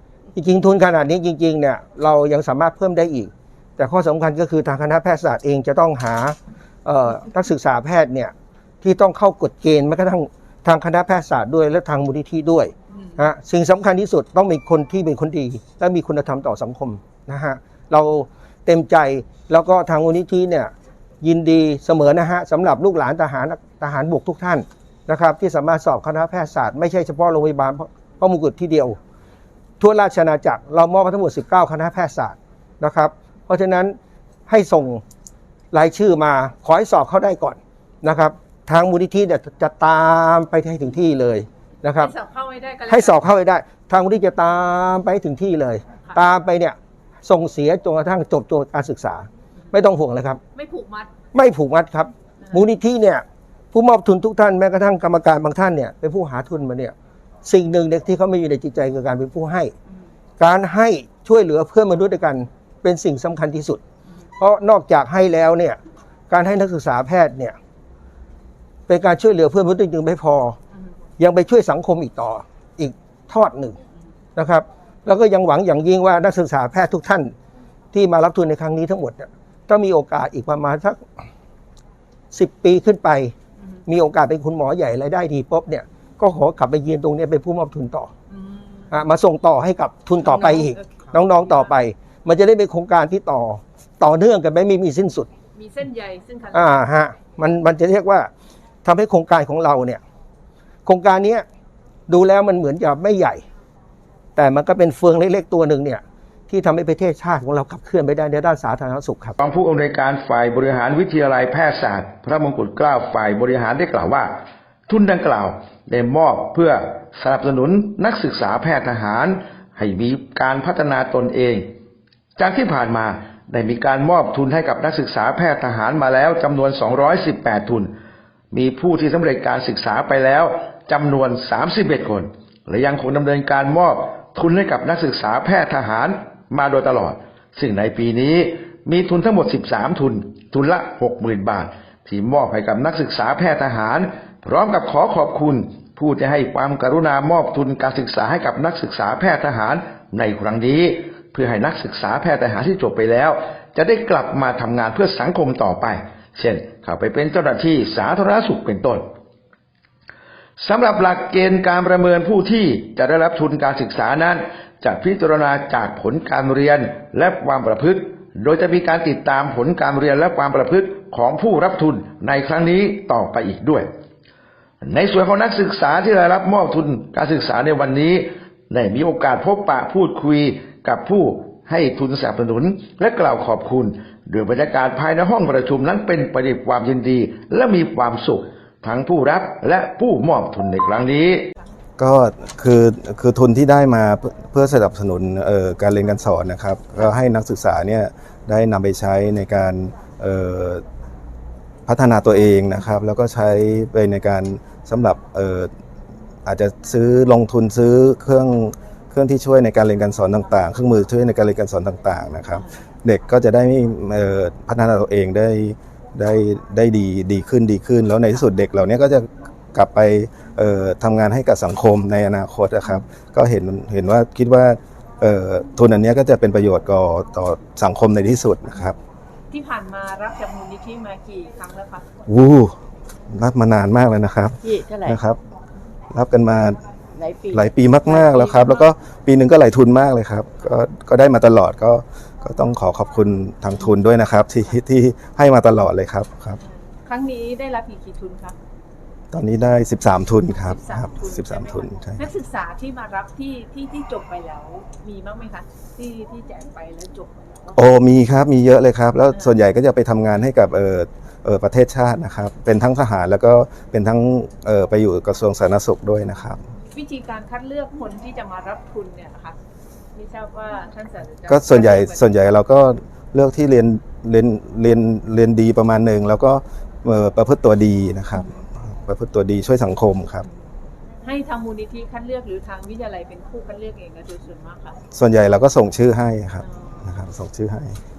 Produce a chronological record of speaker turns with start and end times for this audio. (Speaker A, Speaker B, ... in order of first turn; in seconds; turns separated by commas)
Speaker A: 0.3-29.0, Speaker A: 29.8-34.0, Speaker A: 34.5-35.0, Speaker A: 35.7-42.1, Speaker B: 42.0-43.2, Speaker A: 42.9-50.4, Speaker B: 50.5-51.1, Speaker A: 51.3-59.7, Speaker A: 60.4-63.8, Speaker A: 64.4-65.8, Speaker A: 66.3-67.6, Speaker A: 68.9-70.6, Speaker A: 71.2-73.8, Speaker A: 74.4-77.3, Speaker A: 77.9-81.0, Speaker A: 82.3-83.3, Speaker A: 83.9-88.1, Speaker B: 88.3-88.9, Speaker A: 88.9-95.3, Speaker B: 90.2-90.8, Speaker B: 95.5-96.8, Speaker A: 96.5-98.3, Speaker A: 98.8-100.0, Speaker A: 100.8-101.5, Speaker A: 102.1-103.4, Speaker A: 104.3-109.4, Speaker C: 109.4-121.7, Speaker C: 122.4-127.9, Speaker C: 128.5-159.1, Speaker C: 160.6-173.9, Speaker C: 174.8-191.5, Speaker D: 192.0-200.8, Speaker D: 201.9-205.7, Speaker D: 206.5-228.9, Speaker B: 229.5-232.1, Speaker D: 232.3-232.8, Speaker D: 233.3-235.4, Speaker E: 234.6-235.2, Speaker D: 236.1-236.8, Speaker E: 237.1-238.5, Speaker D: 237.5-246.6, Speaker B: 246.6-248.6, Speaker D: 249.3-252.2, Speaker B: 250.7-257.8, Speaker D: 257.8-266.6, Speaker B: 266.9-269.6, Speaker B: 270.1-272.2, Speaker D: 271.5-280.5, Speaker B: 281.2-285.0, Speaker D: 285.1-288.0